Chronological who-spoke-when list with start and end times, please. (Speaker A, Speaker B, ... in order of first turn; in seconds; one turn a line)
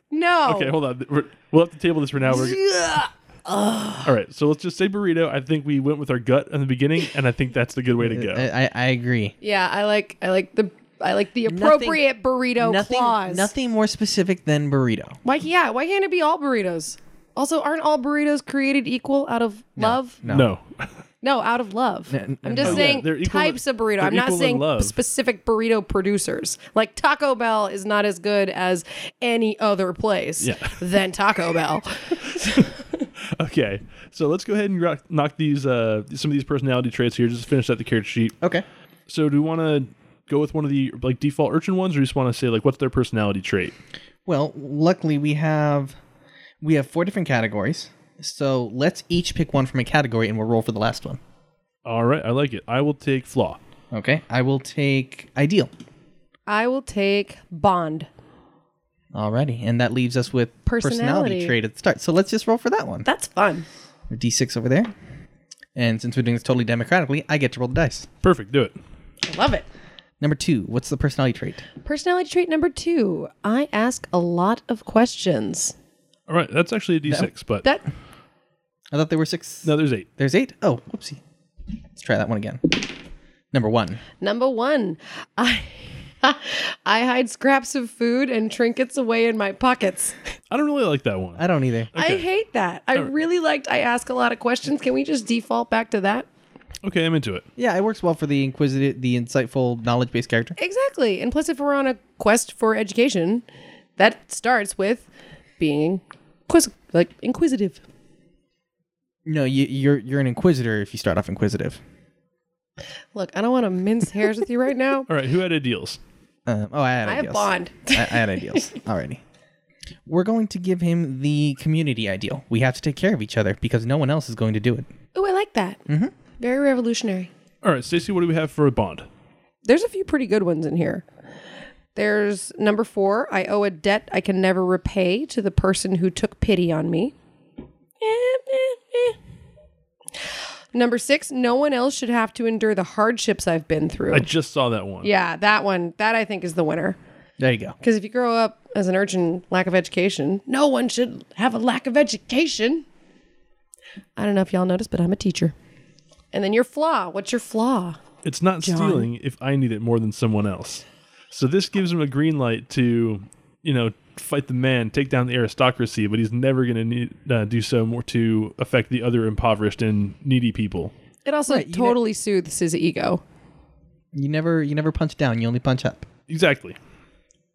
Speaker A: 0.1-0.8
Speaker B: 0.5-2.6
Speaker A: 2.3-4.1
Speaker B: 4.0-8.5
Speaker C: 8.0-9.4
Speaker A: 9.4-13.5
Speaker C: 11.5-12.0
Speaker C: 12.6-15.2
Speaker A: 15.2-20.2
Speaker C: 19.8-20.5
Speaker B: 20.3-20.9
Speaker A: 21.2-33.0
Speaker C: 22.1-23.0
Speaker B: 22.6-25.0
Speaker B: 30.4-30.8
Speaker B: 32.4-32.7
Speaker B: 33.4-38.4
Speaker B: 39.1-43.8
Speaker C: 44.3-46.0
Speaker C: 46.6-51.2
Speaker B: 51.9-53.6
Speaker C: 53.9-55.7
Speaker A: 56.5-58.1
Speaker C: 59.1-63.1
Speaker A: 60.7-61.5
Speaker A: 63.0-63.7
Speaker C: 64.1-64.9
Speaker C: 65.8-68.1
Speaker B: 68.2-68.8
Speaker A: 69.2-69.7
Speaker C: 70.2-71.7
Speaker A: 71.8-75.7
Speaker B: 76.3-77.7
Speaker C: 78.9-81.2
Speaker B: 79.6-80.1
Speaker C: 82.0-82.9
Speaker C: 83.5-84.0
Speaker A: 84.2-90.2
Speaker B: 90.5-92.2
Speaker C: 91.4-91.9
Speaker A: 92.0-96.3
Speaker B: 96.8-97.5
Speaker C: 97.6-100.6
Speaker A: 100.6-103.4
Speaker A: 104.0-105.1
Speaker A: 105.6-107.8
Speaker C: 109.2-111.8
Speaker A: 113.1-115.1
Speaker B: 115.1-116.0
Speaker C: 116.5-119.2
Speaker A: 117.1-118.7
Speaker C: 120.1-124.9
Speaker A: 125.2-125.8
Speaker C: 125.9-126.1
Speaker A: 126.4-127.3
Speaker B: 127.6-129.1
Speaker A: 129.7-131.1
Speaker A: 131.9-137.2
Speaker A: 138.0-139.2
Speaker A: 140.7-144.3
Speaker B: 144.1-145.1
Speaker A: 145.0-147.0
Speaker C: 147.4-147.8
Speaker A: 147.8-152.8
Speaker A: 154.2-155.5
Speaker A: 156.3-158.0
Speaker B: 158.2-170.9
Speaker A: 158.6-159.1
Speaker A: 171.2-173.2
Speaker C: 171.5-172.0
Speaker C: 174.1-176.1
Speaker B: 176.3-176.8